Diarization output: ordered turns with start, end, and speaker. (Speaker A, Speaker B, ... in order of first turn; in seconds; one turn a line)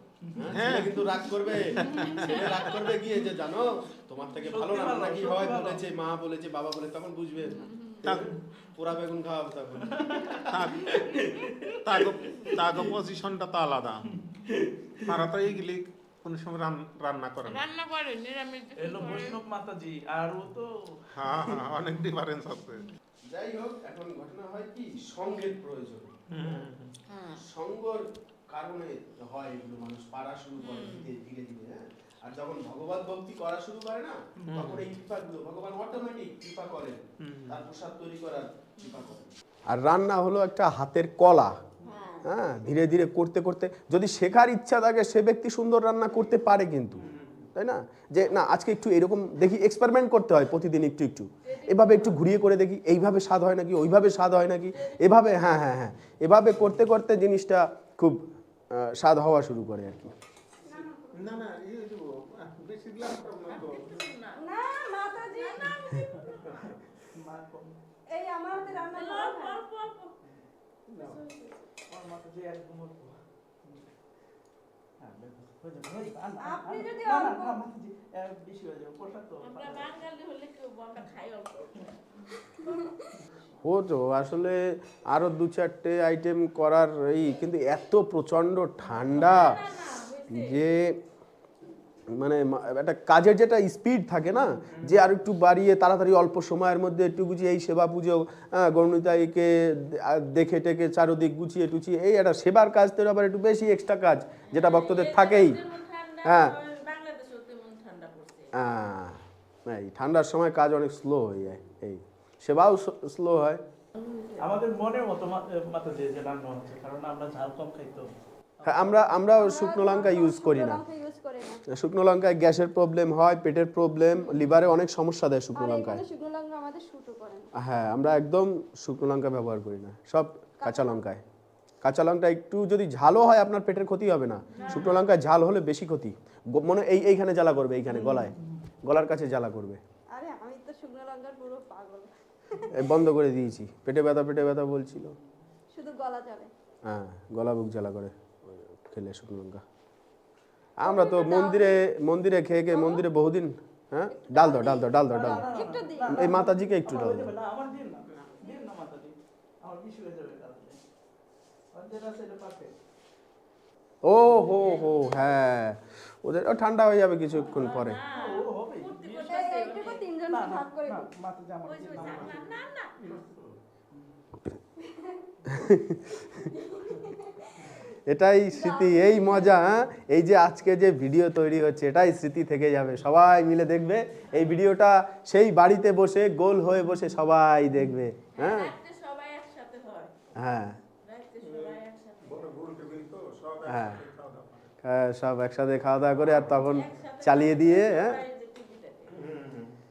Speaker A: 0.2-1.6
Speaker B: 0.4-10.1
Speaker C: 0.5-1.0
Speaker C: 1.8-2.2
Speaker A: 4.4-5.8
Speaker D: 7.7-8.0
Speaker C: 8.0-8.3
Speaker A: 9.8-11.7
Speaker C: 10.5-11.0
Speaker C: 11.8-14.1
Speaker A: 14.3-14.6
Speaker C: 15.1-17.7
Speaker D: 17.4-19.4
Speaker A: 18.8-20.7
Speaker C: 21.1-22.9
Speaker B: 23.3-26.7
Speaker C: 26.3-26.9
Speaker D: 27.1-27.4
Speaker B: 27.4-41.6
Speaker D: 30.6-31.1
Speaker C: 34.5-34.8
Speaker C: 37.2-37.6
Speaker D: 41.9-42.3
Speaker B: 42.2-47.0
Speaker C: 47.0-47.5
Speaker B: 47.6-60.1
Speaker D: 51.5-52.2
Speaker D: 54.7-55.4
Speaker E: 60.6-61.2
Speaker C: 61.1-64.0
Speaker D: 63.5-66.5
Speaker E: 64.3-65.7
Speaker A: 66.1-67.8
Speaker E: 68.1-69.6
Speaker D: 68.9-70.2
Speaker D: 70.9-71.6
Speaker A: 71.9-73.8
Speaker A: 75.0-79.9
Speaker E: 76.4-77.6
Speaker D: 79.4-82.9
Speaker E: 82.6-82.9
Speaker B: 83.6-89.6
Speaker D: 89.1-90.6
Speaker B: 90.3-91.0
Speaker B: 92.1-105.6
Speaker D: 104.5-108.5
Speaker B: 106.2-106.6
Speaker B: 108.5-113.6
Speaker D: 114.0-114.4
Speaker A: 114.4-119.2
Speaker B: 118.7-120.8
Speaker E: 119.3-121.6
Speaker B: 121.7-126.0
Speaker E: 125.5-127.5
Speaker B: 127.6-131.2
Speaker E: 130.6-131.0
Speaker B: 131.8-139.8
Speaker D: 134.5-135.0
Speaker A: 137.9-138.7
Speaker E: 140.1-142.8
Speaker B: 142.7-145.2
Speaker E: 145.7-146.5
Speaker B: 146.8-149.6
Speaker B: 150.8-155.5
Speaker E: 150.8-151.8
Speaker E: 152.7-153.0
Speaker E: 154.1-156.4
Speaker A: 155.1-160.8
Speaker B: 156.1-157.3
Speaker A: 161.7-162.7
Speaker B: 164.0-168.0
Speaker A: 164.2-164.8
Speaker D: 164.6-165.4
Speaker D: 167.3-170.1
Speaker A: 168.1-169.5
Speaker E: 169.3-171.1
Speaker A: 170.3-172.6
Speaker D: 171.7-172.9
Speaker C: 172.0-172.4
Speaker C: 173.0-173.5
Speaker E: 174.8-175.3
Speaker B: 175.5-176.2
Speaker E: 176.2-177.6
Speaker B: 178.1-188.7
Speaker E: 178.5-179.8
Speaker D: 188.3-190.1
Speaker B: 190.4-190.8
Speaker D: 191.0-192.4
Speaker C: 191.4-194.7
Speaker B: 193.7-194.0
Speaker B: 194.8-198.2
Speaker D: 196.4-199.1
Speaker C: 199.1-199.7